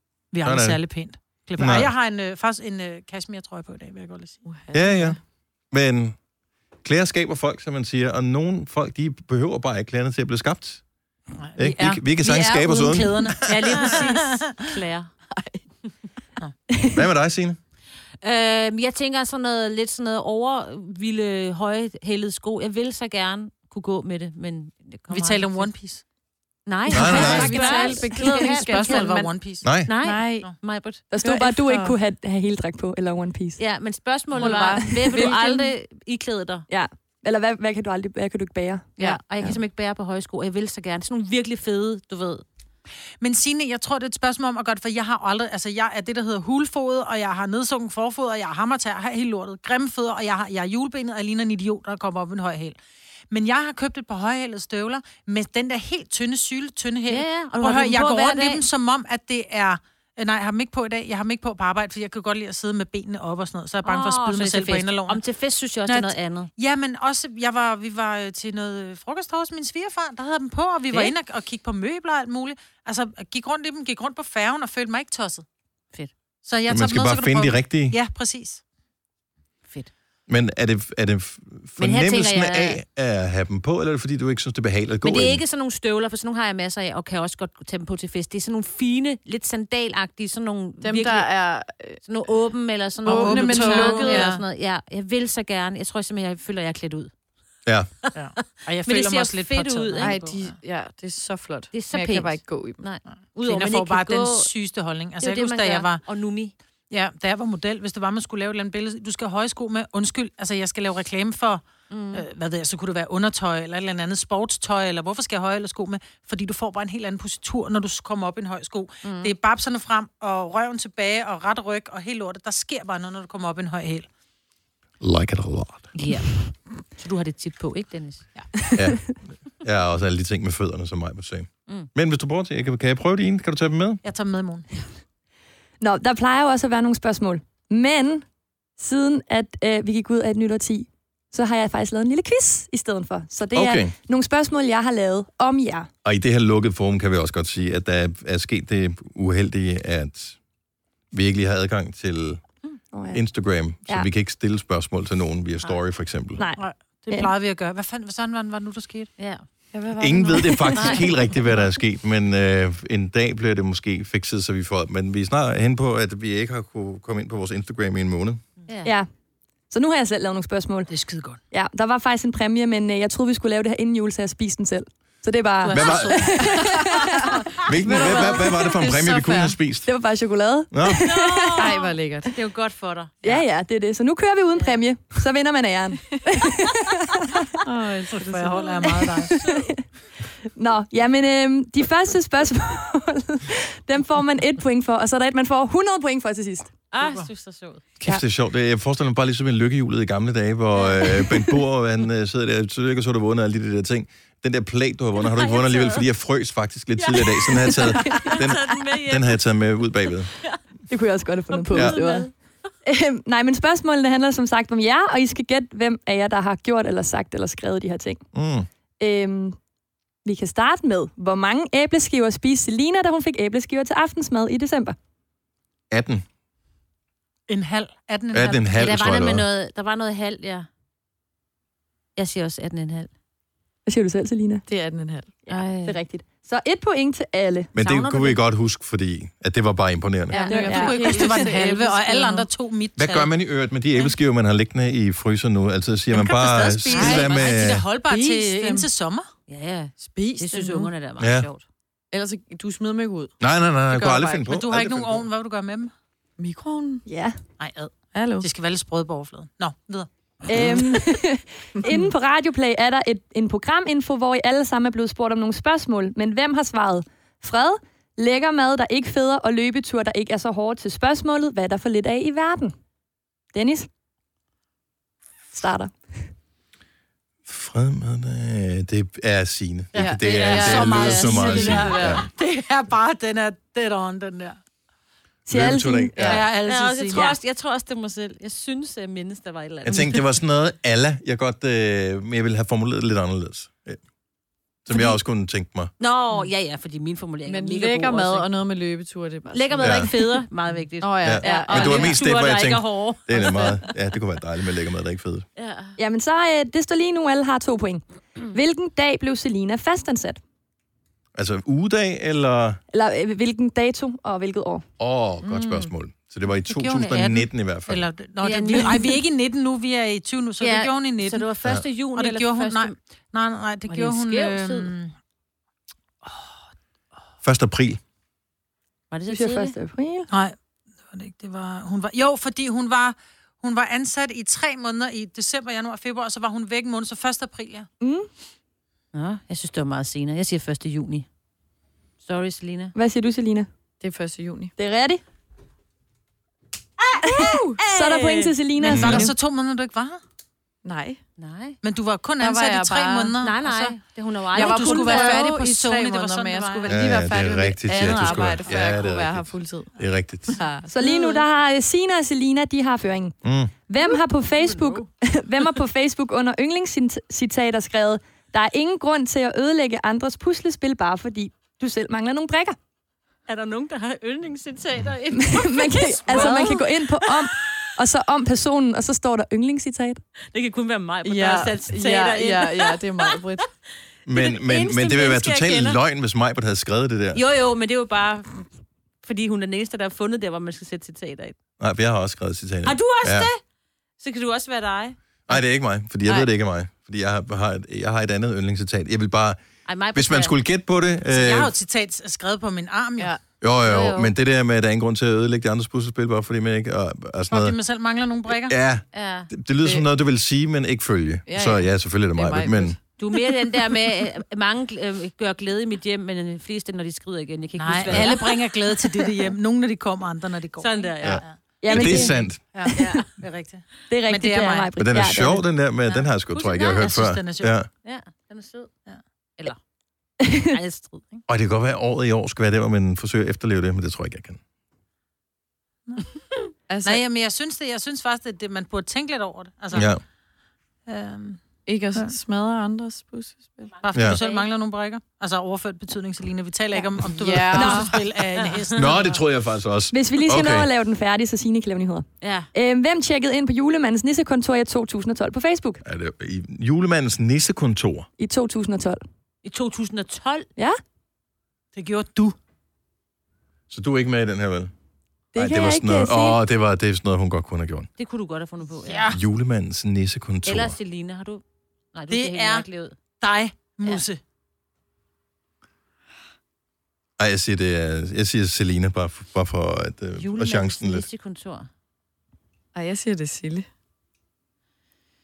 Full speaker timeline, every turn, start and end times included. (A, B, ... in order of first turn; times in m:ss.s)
0:00.3-0:04.4 A
0:00.4-0:00.8 B
0:01.6-0:01.9 B
0:04.5-0:05.2 C
0:04.7-0:05.2 B
0:05.7-0:06.2 B
0:06.8-0:10.8 B
0:11.4-0:14.8 A
0:11.6-0:13.7 B
0:13.4-0:15.1 D
0:15.3-0:15.6 C
0:16.9-0:17.6 B
0:18.2-0:25.7 D
0:25.1-0:26.0 A
0:26.7-0:29.3 D
0:26.9-0:29.3 C
0:26.9-0:27.6 B
0:27.1-0:29.8 A
0:29.6-0:29.9 B
0:29.8-0:31.0 D
0:30.0-0:30.5 C
0:31.1-0:33.6 E
0:31.2-0:32.0 C
0:33.6-0:36.7 D
0:34.3-0:35.7 C
0:34.8-0:35.3 E
0:36.7-0:38.9 E
0:39.0-0:42.4 D
0:43.2-0:52.8 A
0:53.3-1:05.2 A
0:57.1-0:58.6 D
1:03.8-1:06.5 D
1:05.9-1:15.5 A
1:16.4-1:18.6 A
1:16.7-1:18.0 B
1:20.3-1:25.4 B
1:21.8-1:22.8 D
1:25.0-1:31.3 D
1:30.8-1:32.0 C
1:32.0-1:37.1 D
1:33.0-1:34.4 C
1:33.0-1:34.4 A
1:38.0-1:40.2 D
1:38.2-1:40.5 A
1:40.0-1:42.8 C
1:41.7-1:44.5 D
1:43.4-1:46.0 A
1:45.2-1:46.5 D
1:46.9-2:04.1 A
1:51.9-1:52.3 D
1:59.0-1:59.3 D
2:05.0-2:05.9 B
2:06.0-2:08.3 D
2:08.8-2:14.0 B
2:14.0-2:14.7 A
2:15.8-2:18.2 E
2:18.8-2:25.9 E
2:23.6-2:23.9 B
2:26.0-2:30.4 B
2:31.1-2:32.4 B
2:32.9-2:33.2 E
2:33.1-2:36.4 B
2:36.4-2:37.3 E
2:36.6-2:39.1 A
2:39.2-2:39.4 D
2:39.7-2:41.2 C
2:40.0-2:48.4 B
2:40.8-2:41.1 D
2:48.7-2:48.9 D
2:49.7-2:50.9 E
2:50.9-2:51.4 A
2:51.5-2:57.4 E
2:55.7-2:56.4 A
2:55.7-2:56.3 B
2:56.4-2:59.6 C
2:57.6-2:59.9 B
2:59.8-3:01.7 E
3:00.7-3:01.1 B
3:01.0-3:03.4 D
3:01.6-3:02.4 C
3:03.2-3:07.6 E
3:07.6-3:09.1 C
3:08.1-3:09.4 A
3:08.5-3:09.7 D
3:09.3-3:09.8 E
3:10.5-3:16.7 E
3:16.9-3:17.8 D
3:17.0-3:17.3 A
3:18.0-3:30.3 B
3:20.8-3:21.2 D
3:25.2-3:26.1 D
3:27.0-3:29.4 D
3:27.6-3:28.4 E
3:30.9-3:32.3 E
3:31.5-3:32.3 D
3:31.7-3:32.0 B
3:32.8-3:38.2 E
3:38.3-3:38.7 B
3:39.0-3:39.6 E
3:40.2-3:45.0 E
3:45.9-3:46.2 B
3:47.5-3:49.0 A
3:48.3-3:49.4 B
3:48.7-3:50.7 D
3:52.2-3:53.1 D
3:53.9-3:54.6 E
3:54.7-3:55.4 C
3:55.5-3:57.7 E
3:55.5-3:56.0 D
3:57.8-4:00.4 B
3:57.8-3:58.4 D
4:00.3-4:02.5 C
4:00.3-4:01.6 D
4:00.5-4:01.3 E
4:00.6-4:03.3 A
4:03.0-4:07.8 B
4:06.1-4:09.3 A
4:06.6-4:07.6 D
4:06.9-4:07.5 C
4:08.1-4:08.9 C
4:09.5-4:11.6 D
4:10.0-4:10.9 C
4:11.2-4:11.5 B
4:12.1-4:13.4 C
4:13.4-4:15.3 B
4:13.9-4:14.4 C
4:14.4-4:15.9 A
4:16.4-4:17.0 C
4:17.1-4:17.4 E
4:17.6-4:21.0 A
4:18.1-4:18.5 C
4:20.5-4:32.8 E
4:33.5-4:33.9 E
4:35.5-4:35.9 E
4:37.5-4:42.3 B
4:40.0-4:42.2 C
4:40.0-4:44.6 A
4:40.0-4:42.1 D
4:45.5-4:46.4 E
4:45.5-4:46.4 B
4:46.2-4:47.4 A
4:46.6-4:50.3 D
4:49.8-4:54.0 B
4:54.8-4:55.9 B
4:56.0-4:58.5 D
4:57.5-5:00.4 C
4:59.5-5:03.8 D
4:59.8-5:00.1 B
5:01.0-5:02.2 C
5:01.2-5:05.5 B
5:03.4-5:03.8 C
5:05.6-5:06.0 D
5:06.0-5:10.4 E
5:11.4-5:12.8 B
5:12.9-5:14.9 E
5:15.0-5:18.1 B
5:15.4-5:15.9 C
5:16.6-5:21.5 A
5:18.4-5:19.2 D
5:20.6-5:23.0 D
5:22.1-5:25.1 A
5:23.9-5:24.9 D
5:27.4-5:28.0 B
5:29.1-5:29.7 D
5:29.3-5:30.3 E
5:30.3-5:30.6 A
5:31.1-5:37.9 A
5:38.0-5:38.3 E
5:39.1-5:41.3 D
5:42.2-5:43.0 D
5:43.0-5:43.7 E
5:44.0-5:44.7 C
5:44.8-5:45.2 E
5:47.2-5:49.3 E
5:47.4-5:47.8 C
5:47.7-5:48.5 D
5:48.8-5:50.2 A
5:48.9-5:49.3 B
5:50.8-5:51.2 C
5:51.4-5:51.8 D
5:51.8-5:54.0 A
5:52.4-5:53.4 C
5:53.4-5:55.5 D
5:54.5-5:57.2 A
5:54.5-6:00.0 C
5:56.9-6:00.6 B
5:57.8-5:58.7 A
6:00.5-6:00.9 C
6:00.9-6:03.4 E
6:01.0-6:01.4 D
6:03.4-6:03.7 B
6:03.9-6:12.8 E
6:04.6-6:05.0 D
6:13.5-6:17.8 D
6:15.4-6:20.2 E
6:16.3-6:16.7 C
6:20.5-6:23.7 D
6:21.2-6:23.7 C
6:24.3-6:27.4 B
6:24.3-6:26.0 D
6:27.3-6:28.7 D
6:29.2-6:31.6 D
6:31.8-6:33.5 B
6:32.8-6:33.6 D
6:34.2-6:35.2 D
6:35.5-6:39.6 B
6:36.2-6:36.5 C
6:39.9-6:40.6 D
6:40.1-6:41.7 B
6:41.3-6:43.4 A
6:43.6-6:47.8 B
6:43.8-6:44.3 D
6:47.5-6:48.8 A
6:48.7-6:53.0 B
6:49.1-6:49.5 D
6:51.5-6:53.0 C
6:53.2-6:59.5 D
6:57.8-7:04.9 A
6:58.1-6:58.3 B
7:00.8-7:03.3 D
7:01.2-7:02.6 B
7:01.8-7:03.2 E
7:04.1-7:05.6 E
7:05.0-7:07.9 B
7:06.1-7:07.1 D
7:06.7-7:07.8 A
7:08.0-7:08.9 D
7:10.4-7:10.7 E
7:10.6-7:11.4 D
7:11.5-7:14.6 B
7:16.9-7:17.2 C
7:17.0-7:20.2 A
7:19.9-7:20.2 B
7:21.1-7:21.6 A
7:21.9-7:24.0 C
7:24.0-7:29.4 A
7:24.1-7:24.7 D
7:24.1-7:24.4 B
7:27.0-7:28.2 C
7:27.8-7:28.1 E
7:29.0-7:30.9 B
7:30.1-7:36.0 E
7:32.4-7:32.7 D
7:36.0-7:38.3 B
7:38.4-7:39.2 E
7:39.6-7:40.7 D
7:41.9-7:42.6 A
7:43.9-7:44.9 B
7:45.5-7:46.6 E
7:45.6-7:48.1 B
7:48.2-7:49.4 D
7:49.0-7:49.4 A
7:49.3-7:51.0 B
7:50.6-7:51.6 D
7:52.1-7:53.2 D
7:52.3-7:54.4 A
7:57.4-8:01.3 B
8:00.4-8:01.9 D
8:03.0-8:03.9 C